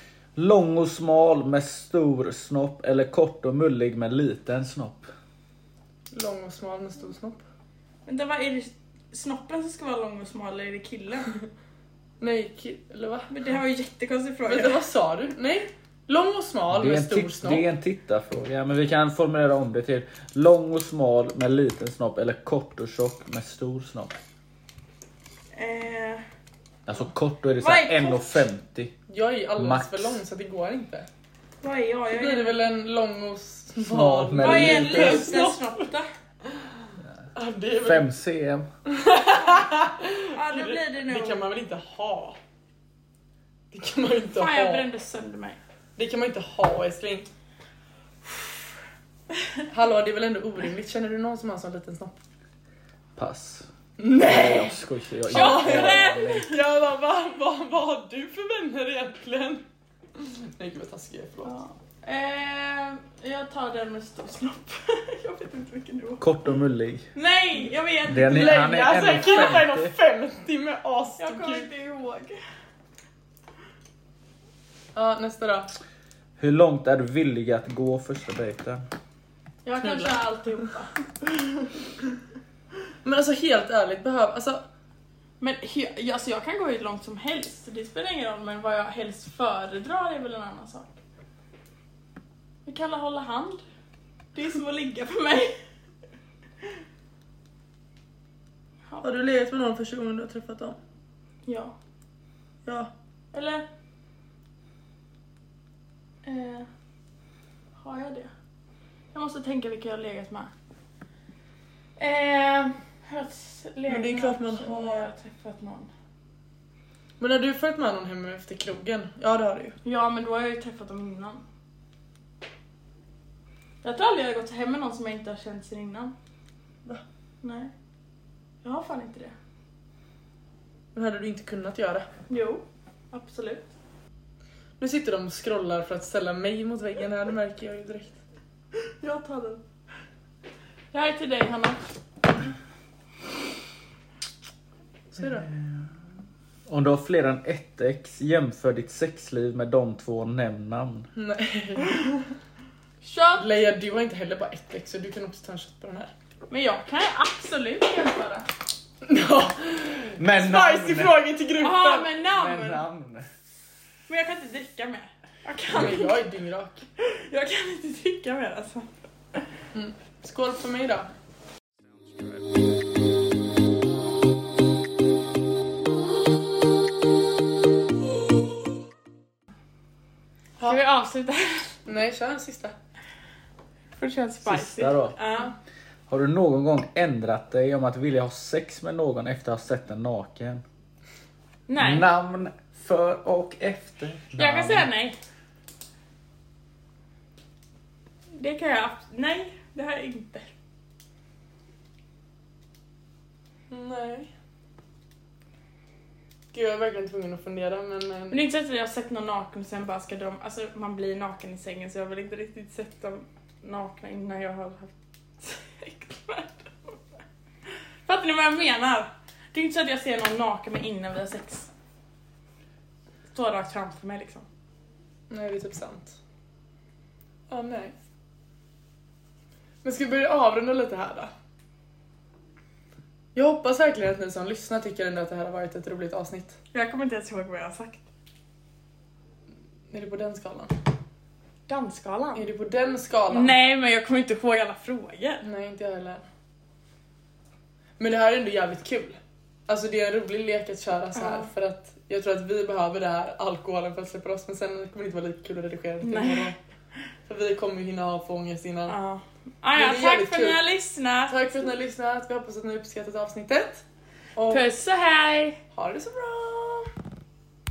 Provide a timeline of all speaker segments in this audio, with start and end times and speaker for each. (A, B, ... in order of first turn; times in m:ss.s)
0:00.4-0:05.1 A
0:06.1-0:07.4 B
0:08.0-0:11.3 C
0:12.2-0:13.3 B
0:13.3-0:14.8 C
0:14.4-0:17.6 B
0:16.7-0:24.1 A
0:25.5-0:26.2 C
0:26.8-0:29.0 A
0:27.6-0:28.4 C
0:29.1-0:31.1 B
0:29.6-0:30.2 A
0:31.6-0:32.6 C
0:32.1-0:35.7 B
0:33.8-0:35.5 A
0:34.4-0:36.1 C
0:37.3-0:38.1 B
0:37.8-0:38.6 A
0:38.8-0:42.4 B
0:39.3-0:39.6 C
0:40.3-0:41.4 C
0:43.7-0:44.9 B
0:44.3-0:45.6 C
0:46.0-0:47.3 B
0:49.7-0:52.1 B
0:53.2-0:56.6 A
0:54.0-0:54.8 B
0:55.3-0:56.5 C
0:55.3-0:59.6 B
1:00.1-1:01.6 B
1:01.4-1:06.2 C
1:06.2-1:07.1 A
1:07.1-1:09.6 C
1:08.1-1:09.9 A
1:08.3-1:11.7 B
1:11.2-1:12.4 C
1:14.9-1:15.7 B
1:16.4-1:18.8 A
1:19.6-1:21.7 C
1:19.8-1:20.6 B
1:23.0-1:24.6 B
1:25.4-1:31.0 C
1:32.6-1:33.6 C
1:34.3-1:35.5 C
1:39.0-1:40.8 B
1:41.4-1:41.8 C
1:42.6-1:42.9 B
1:43.3-1:43.6 C
1:46.2-1:46.7 C
1:47.8-1:48.3 C
1:49.1-1:50.5 C
1:52.0-1:55.9 C
1:53.9-1:55.1 B
1:57.2-1:59.8 B
1:59.8-2:01.4 C
2:03.8-2:06.1 C
2:07.4-2:07.7 C
2:08.6-2:09.3 C
2:10.9-2:12.1 B
2:12.3-2:13.7 C
2:14.8-2:18.2 B
2:18.9-2:19.6 C
2:20.9-2:21.8 C
2:25.1-2:25.5 B
2:26.7-2:31.1 A
2:31.1-2:32.3 B
2:33.0-2:33.5 C
2:33.3-2:36.1 B
2:36.5-2:38.5 C
2:39.0-2:42.1 B
2:40.2-2:41.2 A
2:41.6-2:42.8 C
2:42.3-2:43.2 A
2:44.1-2:46.2 C
2:45.7-2:46.8 B
2:47.0-2:48.9 C
2:49.7-2:51.1 B
3:00.6-3:01.7 C
3:01.8-3:02.7 B
3:04.0-3:05.5 C
3:04.4-3:05.2 A
3:06.1-3:10.6 A
3:11.7-3:12.0 C
3:11.8-3:14.9 A
3:14.4-3:15.2 C
3:18.3-3:20.5 C
3:23.7-3:24.3 B
3:26.5-3:28.4 B
3:28.3-3:37.0 C
3:38.0-3:41.7 C
3:43.3-3:44.4 C
3:45.3-3:46.2 B
3:47.5-3:48.0 B
3:49.8-3:51.3 B
3:53.3-3:56.6 B
3:56.7-3:58.0 C
3:59.9-4:00.7 B
4:01.7-4:02.5 C
4:02.3-4:03.6 B
4:03.3-4:05.4 C
4:05.4-4:06.2 B
4:08.0-4:16.6 B
4:11.2-4:11.5 C
4:16.0-4:16.5 C
4:17.2-4:19.0 B
4:18.9-4:21.4 C
4:19.7-4:20.6 B
4:21.3-4:23.8 B
4:24.4-4:24.7 B
4:24.5-4:25.6 C
4:25.7-4:26.9 B